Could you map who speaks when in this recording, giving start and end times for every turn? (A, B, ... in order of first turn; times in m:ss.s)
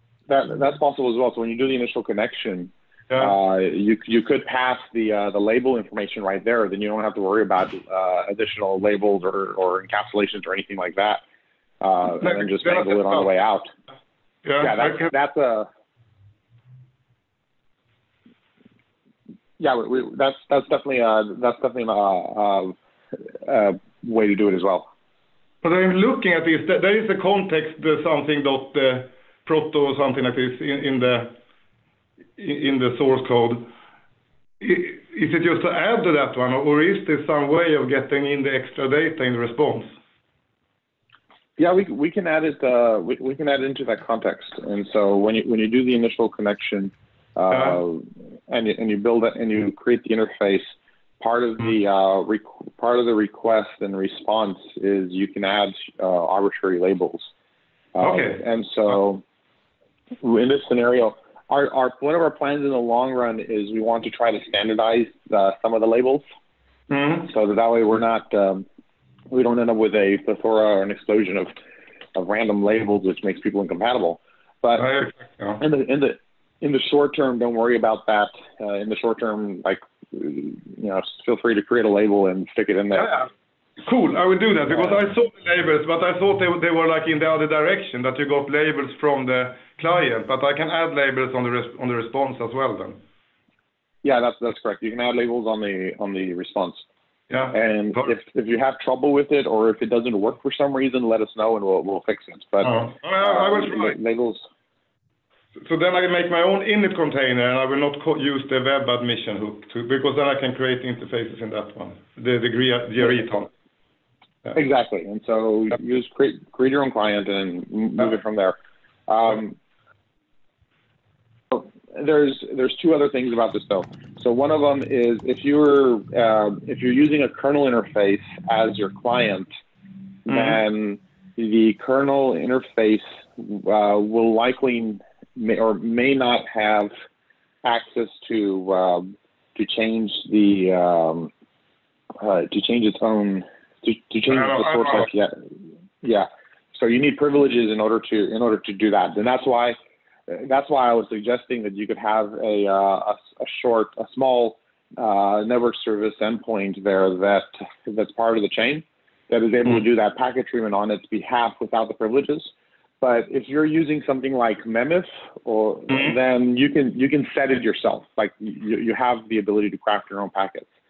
0:00.3-0:11.2 A
0:11.8-0:13.7 A
0:12.2-0:13.3 B
0:14.4-0:15.1 B
0:14.6-0:15.7 A
0:19.6-0:22.7 A
0:23.4-0:24.9 A
0:25.6-0:31.4 B
0:32.4-0:33.7 B
0:34.6-0:39.9 B
0:41.6-0:57.3 A
0:47.5-0:47.8 B
0:58.0-0:59.2 A
0:58.0-0:59.0 B
1:00.2-1:06.2 A
1:06.9-1:07.3 B
1:07.3-1:08.6 A
1:09.3-1:11.5 A
1:12.1-1:14.9 A
1:14.8-1:15.6 B
1:15.6-1:23.2 A
1:22.9-1:23.3 B
1:23.8-1:33.0 B
1:24.7-1:25.0 A
1:34.0-1:36.8 A
1:37.3-1:38.2 B
1:37.5-1:44.4 A
1:42.6-1:44.0 B
1:45.6-1:53.5 B
1:54.5-1:59.6 A
2:01.5-2:09.5 A
2:10.2-2:16.9 A
2:10.3-2:10.6 B
2:17.6-2:21.3 A
2:22.2-2:25.3 A
2:24.3-2:25.1 B
2:26.0-2:29.8 A
2:30.3-2:50.7 A
2:45.9-2:46.1 B